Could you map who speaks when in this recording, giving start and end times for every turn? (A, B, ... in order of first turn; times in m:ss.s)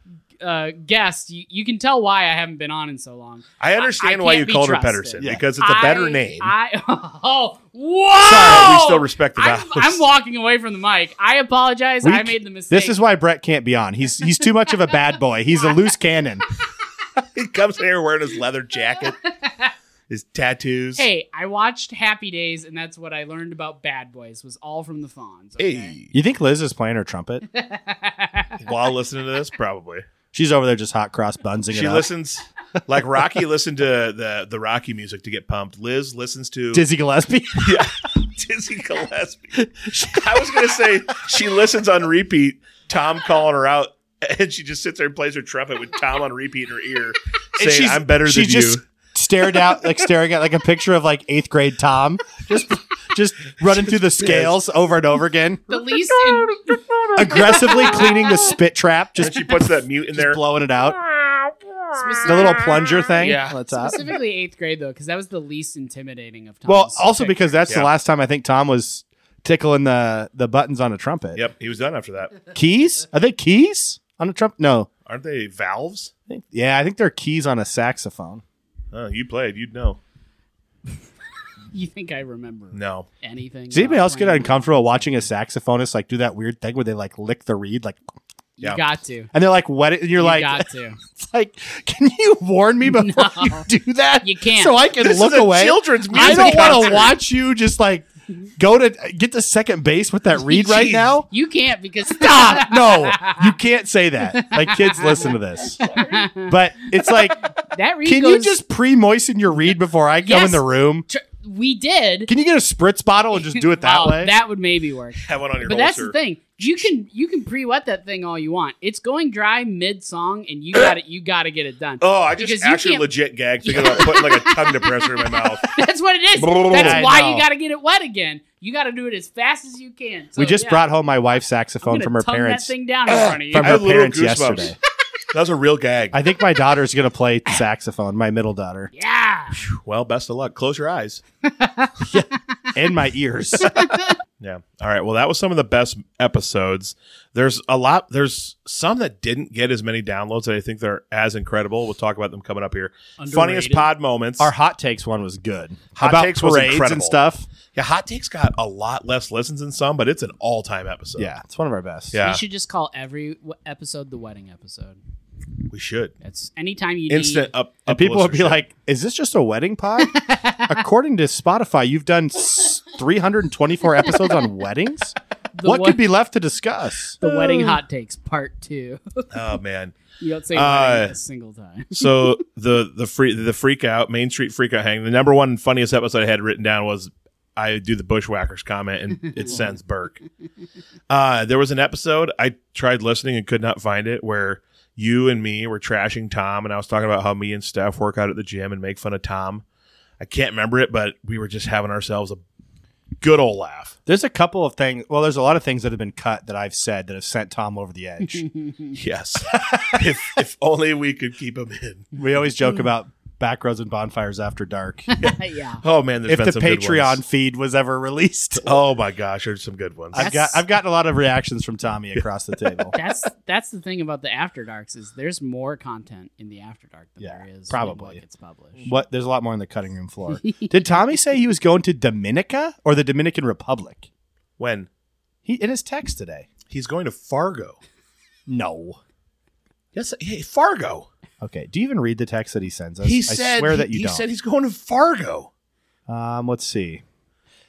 0:00.4-0:13.0 A
0:03.6-0:06.5 B
0:08.2-0:08.8 C
0:08.2-0:10.0 B
0:12.0-0:16.4 C
0:17.3-0:19.2 B
0:19.4-0:19.7 A
0:20.1-0:21.0 B
0:21.0-0:25.9 A
0:25.6-0:26.1 B
0:26.1-0:27.4 C
0:27.5-0:28.6 A
0:28.6-0:30.1 B
0:30.3-0:32.1 C
0:31.7-0:36.9 B
0:36.7-0:37.8 C
0:37.6-0:48.8 B
0:39.6-0:40.8 C
0:47.6-0:55.6 C
0:53.8-0:54.6 B
0:55.7-0:56.8 A
0:57.1-0:59.6 C
0:59.2-1:00.4 B
1:00.1-1:01.0 C
1:01.9-1:07.6 A
1:02.2-1:04.0 C
1:03.2-1:03.6 B
1:06.7-1:11.4 C
1:11.3-1:12.3 B
1:12.5-1:14.9 C
1:15.0-1:16.1 B
1:16.3-1:18.4 C
1:18.9-1:20.0 B
1:21.7-1:24.9 A
1:22.7-1:23.1 B
1:23.7-1:28.0 C
1:28.6-1:29.3 A
1:29.3-1:41.3 C
1:30.2-1:31.0 A
1:32.9-1:33.7 A
1:34.2-1:34.8 A
1:35.0-1:37.2 B
1:36.1-1:37.1 A
1:40.5-1:43.5 A
1:40.6-1:41.1 B
1:42.1-1:45.8 C
1:44.2-1:48.6 A
1:45.8-1:46.2 B
1:46.4-1:47.5 C
1:48.0-1:51.0 C
1:50.2-1:52.3 A
1:52.3-1:54.3 C
1:53.4-2:03.1 A
1:55.2-1:56.2 B
2:02.0-2:05.8 B
2:03.6-2:10.8 A
2:06.4-2:07.0 B
2:06.7-2:07.4 C
2:10.4-2:12.7 C
2:11.8-2:13.8 A
2:13.1-2:14.7 B
2:13.5-2:14.8 C
2:15.3-2:16.2 B
2:16.1-2:18.9 C
2:18.9-2:19.6 A
2:19.5-2:21.2 B
2:21.4-2:22.6 A
2:22.1-2:23.9 C
2:23.6-2:24.1 A
2:24.4-2:34.5 B
2:33.2-2:33.9 A
2:34.4-2:37.5 C
2:36.0-2:37.2 B
2:37.7-2:41.3 B
2:41.2-2:42.2 C
2:42.1-2:42.4 B
2:42.2-2:45.0 A
2:45.7-2:46.1 B
2:46.2-2:47.5 A
2:47.1-2:48.6 B
2:47.9-2:57.2 C
2:50.0-2:50.8 A
2:54.0-2:54.4 A
2:55.5-2:56.0 A
2:57.2-2:59.3 A
2:59.3-3:01.1 B
3:00.2-3:02.3 A
3:01.9-3:10.2 B
3:11.1-3:19.6 B
3:20.2-3:22.4 B
3:23.2-3:23.9 B
3:24.1-3:28.4 C
3:28.2-3:29.0 A
3:28.9-3:32.1 B
3:29.5-3:30.1 C
3:32.1-3:35.1 C
3:35.1-3:35.8 A
3:35.8-3:37.2 B
3:36.3-3:38.8 C
3:38.6-3:40.3 B
3:40.1-3:43.0 C
3:40.1-3:40.6 A
3:42.9-3:48.9 A
3:47.2-3:48.2 C
3:48.8-3:54.1 C
3:50.4-3:50.7 A
3:54.6-3:54.9 B
3:55.4-3:56.5 C
3:56.7-3:57.8 B
3:58.5-3:59.0 C
3:59.9-4:01.1 B
4:01.4-4:04.2 C
4:03.0-4:05.5 B
4:06.1-4:07.0 C